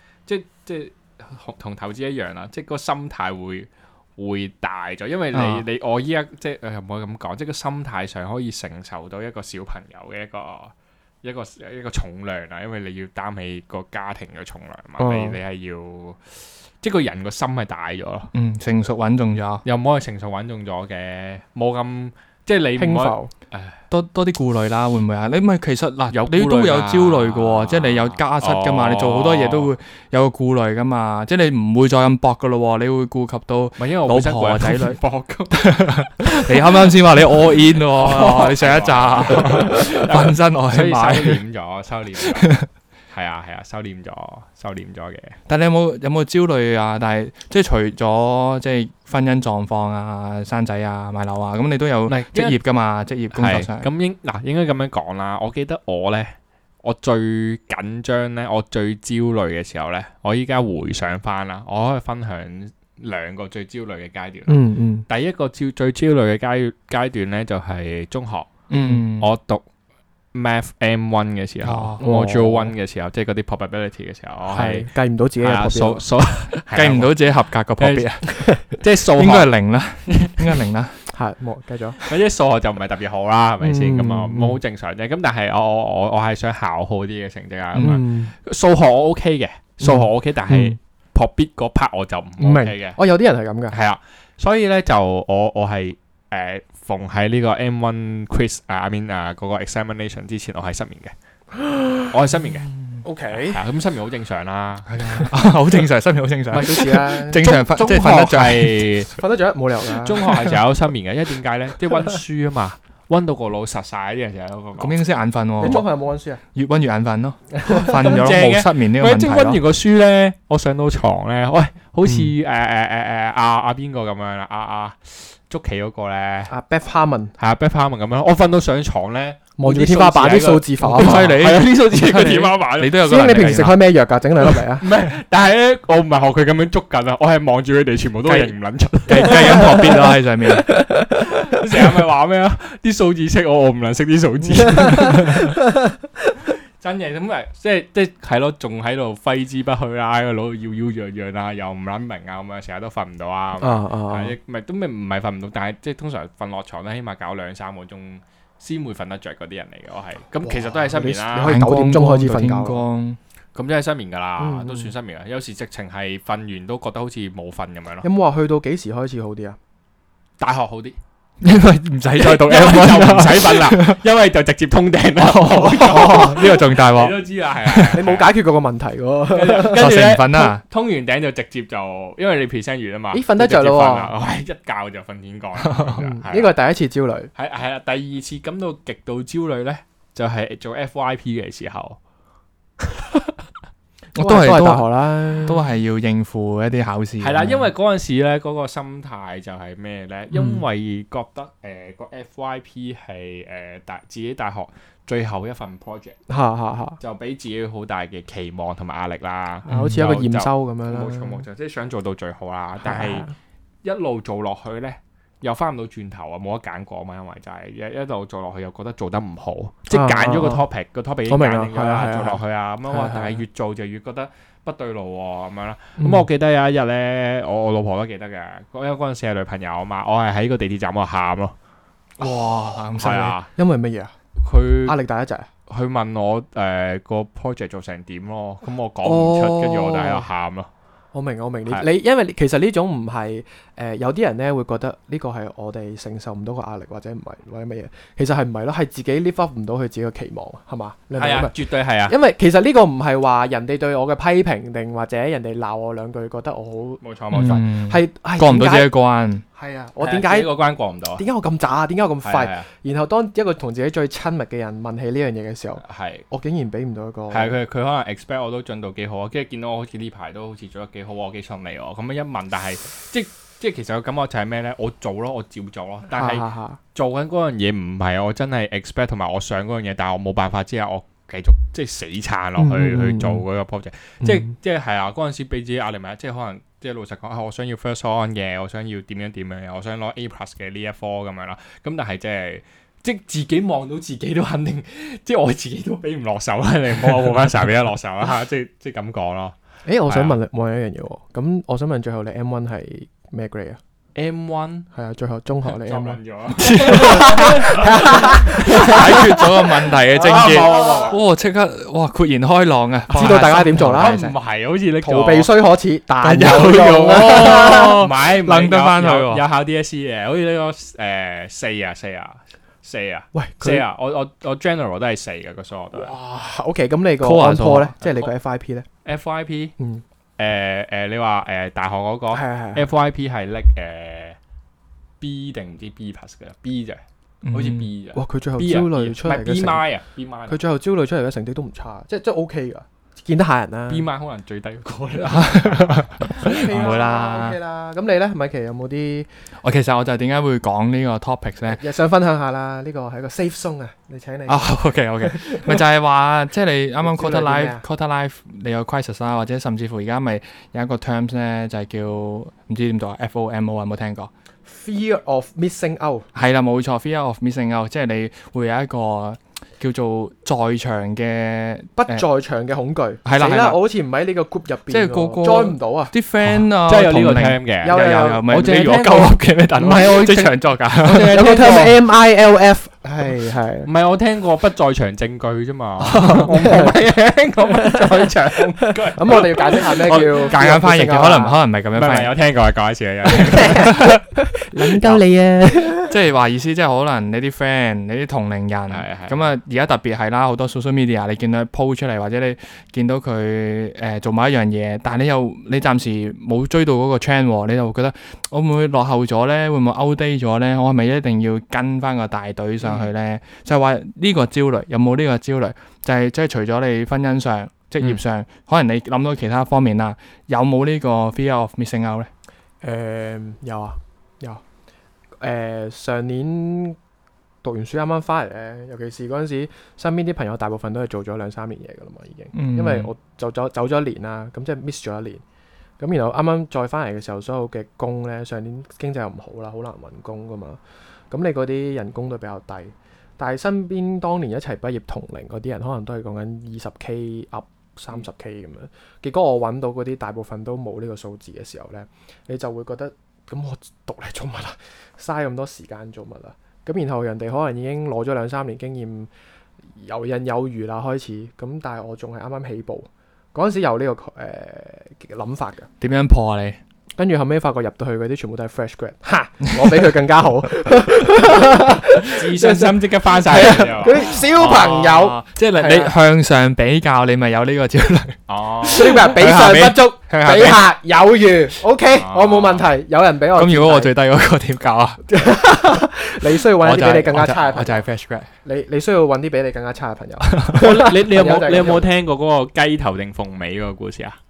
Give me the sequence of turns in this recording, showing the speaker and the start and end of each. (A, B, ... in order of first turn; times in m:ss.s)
0:00.2-0:18.3 A
0:05.3-0:05.7 B
0:15.0-0:15.4 C
0:18.3-0:19.6 B
0:19.6-0:23.8 A
0:22.8-0:23.3 C
0:23.9-0:35.0 B
0:26.1-0:29.7 A
0:33.8-0:35.6 A
0:35.5-0:41.4 B
0:37.9-0:42.6 A
0:42.2-0:42.7 B
0:43.1-0:45.4 A
0:45.5-0:53.9 B
0:52.1-0:52.6 A
0:53.3-1:08.5 A
1:04.5-1:05.1 C
1:08.7-1:09.3 B
1:09.0-1:09.6 A
1:10.3-1:14.9 A
1:11.6-1:12.0 B
1:12.0-1:12.7 C
1:14.5-1:16.0 C
1:15.4-1:17.1 A
1:16.7-1:18.5 B
1:17.8-1:18.1 A
1:18.3-1:18.6 C
1:18.7-1:19.5 A
1:19.2-1:21.0 B
1:20.1-1:20.6 A
1:21.1-1:22.0 C
1:22.0-1:33.0 A
1:23.6-1:24.6 C
1:27.8-1:28.3 C
1:29.8-1:30.8 C
1:32.4-1:33.8 C
1:33.7-1:41.1 A
1:41.5-1:42.1 C
1:42.1-1:42.7 A
1:43.0-1:43.6 C
1:43.3-1:44.9 A
1:44.9-1:48.9 B
1:46.5-1:47.4 C
1:47.3-1:49.1 A
1:49.1-1:50.6 C
1:50.0-1:55.0 A
1:54.8-1:55.8 B
1:55.6-1:56.4 C
1:56.5-1:59.6 B
1:57.5-1:58.2 C
1:57.8-2:06.5 A
2:06.5-2:07.3 C
2:07.4-2:13.0 A
2:09.6-2:11.4 C
2:10.8-2:13.8 B
2:13.0-2:14.8 C
2:14.4-2:20.0 A
2:18.3-2:18.5 B
2:19.1-2:20.7 B
2:20.8-2:25.6 A
2:24.8-2:25.5 C
2:26.8-2:41.6 A
2:33.6-2:34.3 C
2:40.4-2:42.8 C
2:41.4-2:43.2 B
2:43.5-2:48.1 A
2:44.4-2:44.9 C
2:48.0-2:49.6 C
2:50.4-2:51.0 A
2:51.4-2:54.0 B
2:52.2-2:58.3 A
2:55.3-2:56.5 C
2:55.3-2:58.0 B
2:57.9-2:59.8 C
2:59.3-3:06.5 A
2:59.6-3:00.6 B
3:03.1-3:04.1 C
3:05.6-3:06.0 B
3:06.0-3:07.3 C
3:07.4-3:12.0 A
3:14.2-3:15.6 C
3:14.2-3:17.7 B
3:17.2-3:26.2 A
3:26.3-3:27.0 C
3:27.0-3:33.3 A
3:29.7-3:30.0 B
3:29.7-3:31.4 C
3:32.8-3:33.3 C
3:33.8-3:51.5 A
3:39.9-3:40.6 C
3:41.3-3:43.4 C
3:46.0-3:46.3 C
3:52.2-3:53.4 B
3:53.0-3:53.5 A
3:53.5-3:54.1 C
3:54.4-3:55.0 A
3:54.8-3:55.5 C
3:55.7-4:00.7 A
3:59.0-4:00.3 C
4:01.1-4:18.9 C
4:11.2-4:12.1 A
4:17.0-4:17.6 A
4:17.3-4:19.4 B
4:19.5-4:20.5 C
4:20.0-4:21.2 A
4:21.2-4:27.6 C
4:22.2-4:22.7 A
4:25.8-4:26.2 A
4:27.3-4:59.6 A
4:36.1-4:36.8 C
4:42.6-4:43.4 C
4:44.2-4:44.5 C
4:59.9-5:03.8 C
5:00.1-5:00.4 A
5:04.1-5:04.9 A
5:04.9-5:09.4 C
5:05.7-5:11.2 A
5:06.6-5:14.4 B
5:10.2-5:11.0 C
5:13.1-5:14.2 C
5:13.1-5:15.5 A
5:15.0-5:18.0 C
5:16.2-5:26.1 A
5:16.2-5:19.4 B
5:23.3-5:23.8 C
5:25.9-5:28.9 C
5:27.2-5:27.9 B
5:28.0-5:28.3 A
5:29.0-5:29.7 A
5:30.4-5:34.4 A
5:32.3-5:32.8 C
5:35.2-5:40.6 A
5:37.4-5:37.9 B
5:38.1-5:39.8 C
5:40.5-5:44.0 C
5:43.9-5:46.6 A
5:45.2-5:47.6 B
5:46.2-5:49.3 C
5:49.6-5:51.8 B
5:51.7-5:55.8 C
5:54.5-6:04.3 B
5:57.0-5:57.8 C
6:04.7-6:06.3 C
6:06.3-6:12.2 B
6:12.0-6:16.1 C
6:13.2-6:13.8 B
6:14.9-6:21.5 B
6:16.6-6:22.0 A
6:17.8-6:18.6 C
6:19.8-6:20.3 C
6:21.2-6:23.9 C
6:23.9-6:30.7 A
6:26.0-6:26.9 C
6:26.2-6:26.5 B
6:27.7-6:31.6 C
6:30.3-6:32.3 B
6:31.9-6:34.1 A
6:33.3-6:36.1 C
6:33.8-6:34.2 B
6:35.0-6:35.2 B
6:36.0-7:02.3 B
6:38.9-6:39.4 A
7:02.8-7:04.6 C
7:05.4-7:07.0 C
7:07.6-7:15.4 C
7:12.5-7:13.1 B
7:16.0-7:39.3 C
7:40.0-7:45.9 C
7:46.0-7:46.8 B
7:47.2-7:56.1 C
7:49.8-7:50.0 B
7:52.2-7:54.9 A
7:54.3-8:00.8 B
7:58.5-8:00.8 A
7:58.8-8:04.1 C
8:02.1-8:02.9 A
8:03.6-8:05.2 B
8:05.3-8:08.0 C
8:06.6-8:08.5 B
8:08.6-8:12.1 C
8:10.5-8:10.9 B
8:10.7-8:14.4 A